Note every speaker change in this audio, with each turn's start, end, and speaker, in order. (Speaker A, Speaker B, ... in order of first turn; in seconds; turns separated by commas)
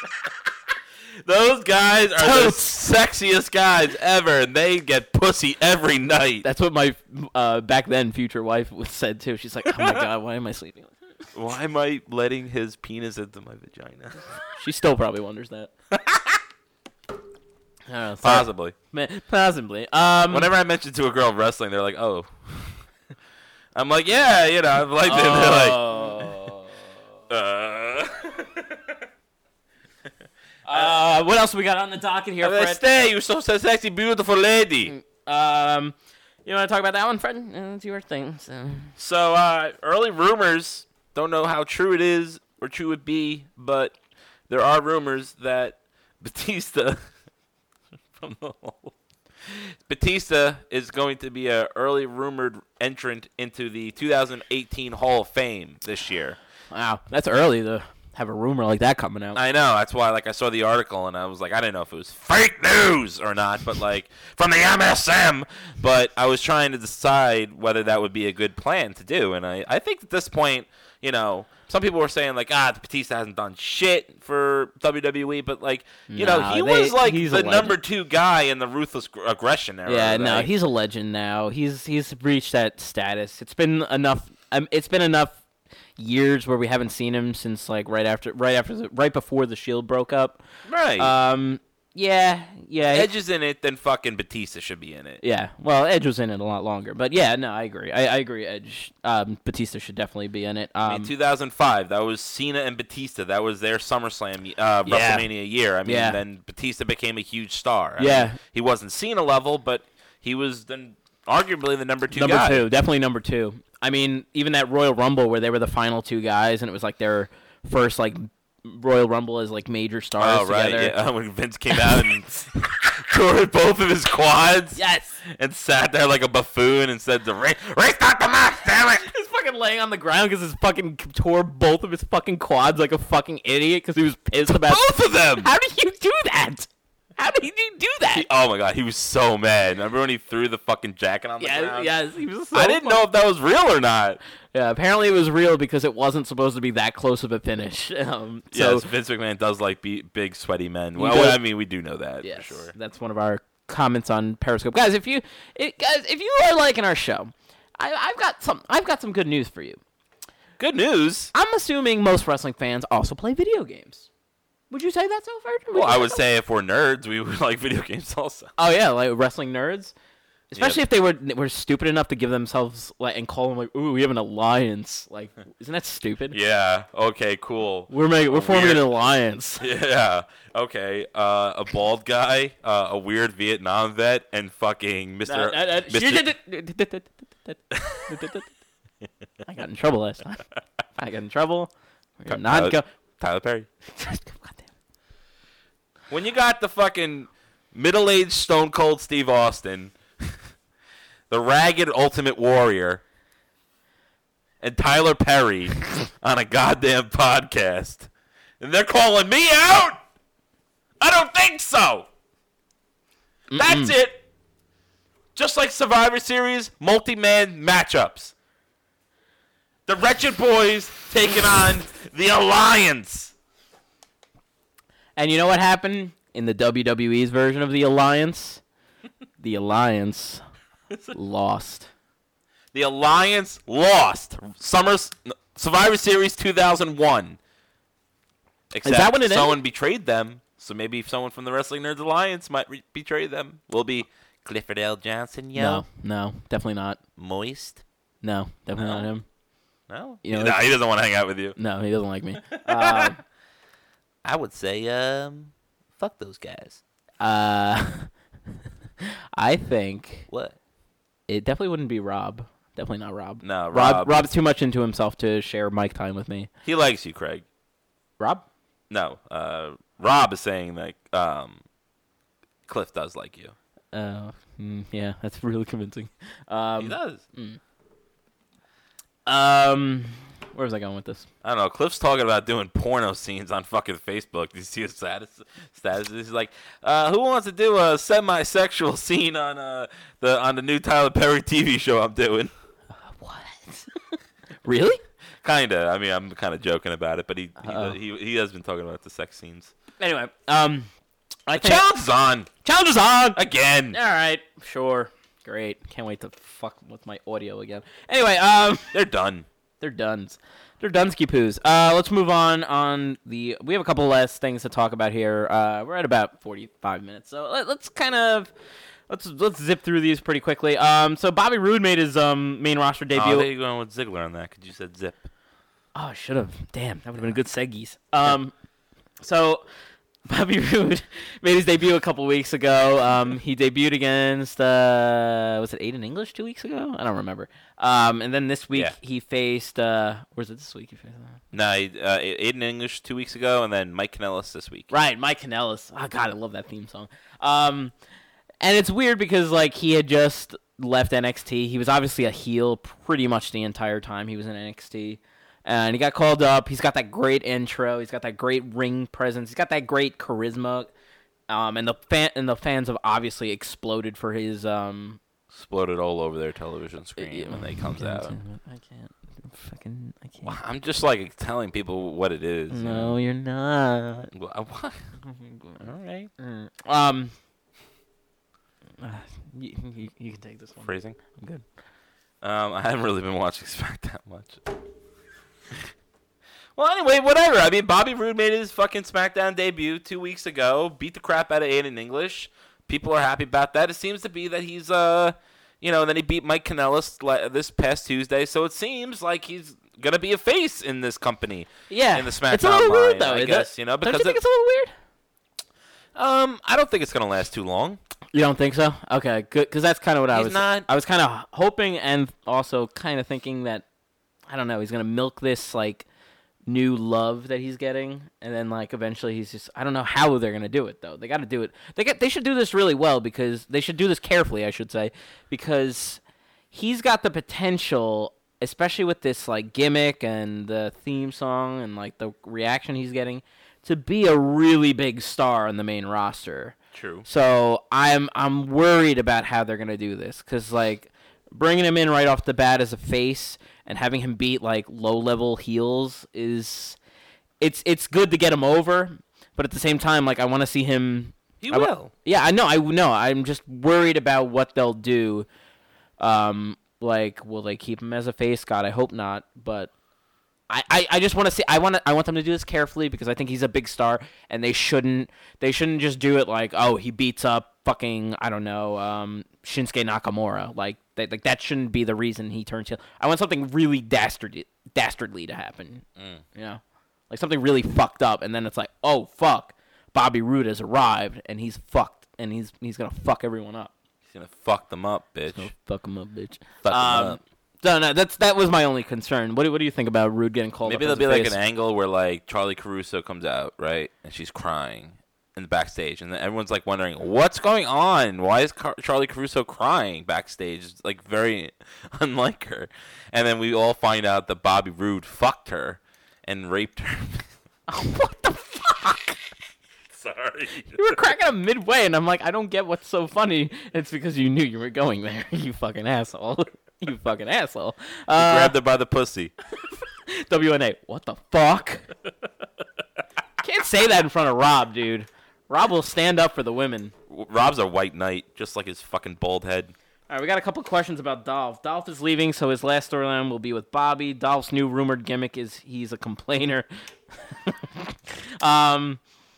Speaker A: 1.2-6.4, Speaker B: 2.2-2.7, Speaker B: 6.4-10.9, Speaker A: 11.3-14.3, Speaker B: 14.6-15.7, Speaker A: 15.9-16.4, Speaker B: 17.9-20.5, Speaker A: 18.2-18.7, Speaker A: 20.3-22.8, Speaker A: 23.7-26.3, Speaker B: 25.0-26.8, Speaker A: 27.3-28.9, Speaker B: 30.7-32.8, Speaker A: 32.4-34.9, Speaker B: 34.9-38.9, Speaker A: 39.0-43.9, Speaker A: 44.5-47.0, Speaker A: 48.2-48.9, Speaker A: 49.5-56.4, Speaker B: 56.7-59.4, Speaker A: 59.3-80.5, Speaker B: 76.1-77.8, Speaker B: 79.9-85.4, Speaker B: 86.0-90.4, Speaker A: 90.7-91.1, Speaker B: 91.0-93.1, Speaker A: 92.9-95.2, Speaker B: 95.2-101.1, Speaker A: 100.8-112.6, Speaker B: 104.8-105.3, Speaker B: 105.8-106.2, Speaker B: 108.0-108.4, Speaker B: 112.1-120.9, Speaker A: 120.2-129.1, Speaker B: 121.7-122.1, Speaker B: 124.8-125.2, Speaker B: 129.0-138.2, Speaker A: 134.5-135.5, Speaker A: 138.1-141.9, Speaker B: 141.4-143.0, Speaker A: 142.5-144.2, Speaker B: 144.5-148.9, Speaker A: 148.5-152.7, Speaker B: 151.0-151.4, Speaker B: 152.2-159.8, Speaker A: 160.6-161.3, Speaker B: 161.3-164.1, Speaker B: 164.7-166.2, Speaker A: 165.7-168.5, Speaker B: 168.6-169.9, Speaker A: 170.5-170.8, Speaker B: 170.5-176.4, Speaker A: 176.3-178.8, Speaker B: 177.9-179.6, Speaker A: 179.6-186.2, Speaker B: 185.3-188.5, Speaker A: 187.7-188.0, Speaker B: 189.4-190.4, Speaker B: 191.0-192.9, Speaker A: 192.3-193.7, Speaker B: 193.9-194.7, Speaker A: 196.1-200.4, Speaker A: 201.3-203.0, Speaker A: 204.6-208.1, Speaker A: 208.6-210.0, Speaker A: 211.0-212.1, Speaker B: 213.5-213.9, Speaker A: 213.5-214.2, Speaker A: 215.3-218.3, Speaker A: 219.9-223.3, Speaker B: 225.2-228.6, Speaker B: 229.4-230.4, Speaker B: 231.1-231.9, Speaker A: 232.7-237.4, Speaker A: 238.7-245.8, Speaker B: 238.8-239.6, Speaker B: 245.5-247.0, Speaker A: 247.2-247.8, Speaker B: 248.2-249.2, Speaker A: 248.8-249.1, Speaker A: 249.9-251.6, Speaker B: 250.2-250.6, Speaker B: 251.6-253.2, Speaker A: 252.5-253.1, Speaker A: 254.2-256.8, Speaker B: 257.2-258.1, Speaker B: 259.0-260.3, Speaker A: 260.3-260.6, Speaker B: 261.3-266.5, Speaker A: 263.4-264.3, Speaker A: 266.6-267.4, Speaker B: 268.2-268.4, Speaker A: 268.9-271.6, Speaker A: 272.7-273.5, Speaker B: 273.9-277.6, Speaker A: 276.8-277.2, Speaker B: 279.2-281.3, Speaker A: 281.4-292.5, Speaker B: 293.0-295.0, Speaker A: 295.4-299.7, Speaker B: 297.6-297.9, Speaker B: 300.0-300.9, Speaker B: 301.5-301.8, Speaker A: 301.6-302.5, Speaker B: 302.6-303.4, Speaker A: 303.4-304.0, Speaker B: 303.9-308.9, Speaker A: 308.9-309.4, Speaker B: 309.8-318.5, Speaker B: 319.1-323.5, Speaker A: 323.1-325.3, Speaker B: 325.9-328.5, Speaker B: 329.2-329.6, Speaker B: 330.3-341.4, Speaker A: 341.5-344.9, Speaker B: 344.9-347.9, Speaker B: 348.6-360.9, Speaker B: 361.5-365.2, Speaker A: 365.5-368.4, Speaker B: 367.2-370.6, Speaker A: 370.4-373.1, Speaker B: 372.7-374.3, Speaker A: 374.3-375.1, Speaker B: 375.3-375.8, Speaker A: 375.8-376.3, Speaker B: 376.4-377.3, Speaker B: 379.0-381.6, Speaker A: 380.8-381.2, Speaker A: 382.4-384.6, Speaker A: 386.8-404.4, Speaker B: 401.9-404.9, Speaker A: 406.1-408.0, Speaker B: 408.3-413.8, Speaker A: 410.3-410.9, Speaker B: 414.5-416.1, Speaker B: 416.7-426.2, Speaker B: 426.7-447.0, Speaker A: 436.9-437.2, Speaker B: 447.6-455.5, Speaker A: 451.6-452.1, Speaker B: 456.2-459.9, Speaker B: 460.7-476.0, Speaker B: 476.5-483.9, Speaker A: 484.3-485.7, Speaker B: 485.5-491.6, Speaker A: 486.8-487.4, Speaker A: 490.8-507.4, Speaker B: 507.9-509.4, Speaker A: 510.1-511.1, Speaker B: 510.9-518.7, Speaker A: 518.4-519.5, Speaker B: 520.3-522.1, Speaker B: 523.6-527.1, Speaker A: 527.3-529.9, Speaker B: 530.3-536.9, Speaker B: 537.4-539.2